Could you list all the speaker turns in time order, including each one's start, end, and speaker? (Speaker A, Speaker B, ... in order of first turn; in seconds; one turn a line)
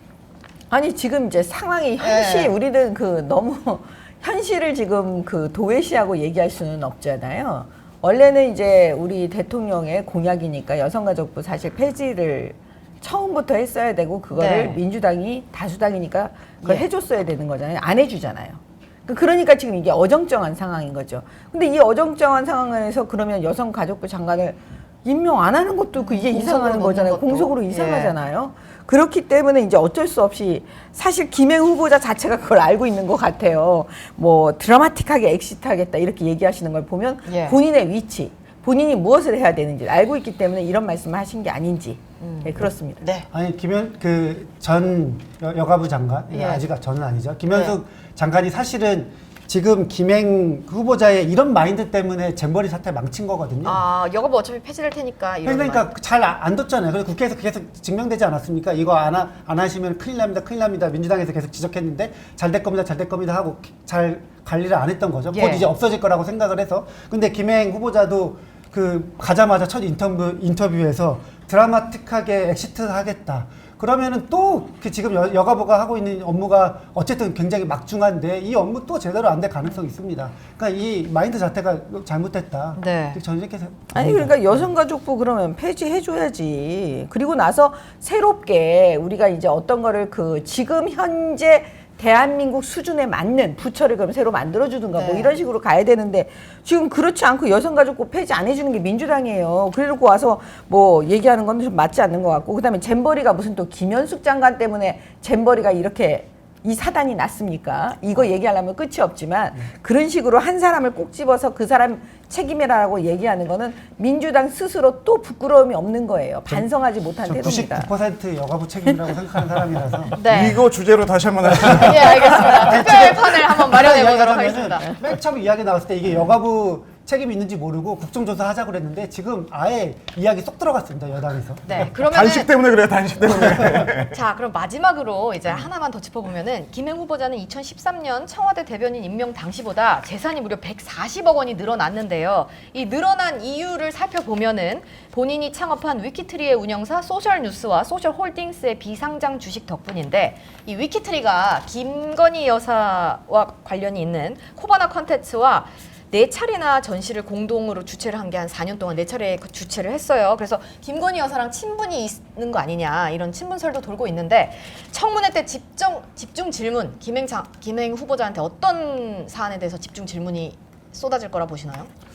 Speaker A: 0.7-43.0
Speaker B: 2.0-2.5
Speaker B: 14.3-14.8
Speaker B: 25.9-28.2
Speaker B: 37.3-37.6
Speaker B: 42.2-43.3
Speaker C: 43.3-53.8
Speaker B: 46.3-46.6
Speaker B: 47.5-47.8
Speaker B: 53.6-55.9
Speaker C: 55.4-84.7
Speaker B: 65.3-65.7
Speaker B: 82.8-83.2
Speaker A: 83.9-117.9
Speaker B: 95.0-95.4
Speaker C: 117.2-120.2
Speaker B: 120.2-120.6
Speaker D: 120.2-122.7
Speaker B: 121.5-125.0
Speaker C: 121.6-131.8
Speaker B: 131.7-132.5
Speaker D: 131.8-134.2
Speaker B: 133.3-171.9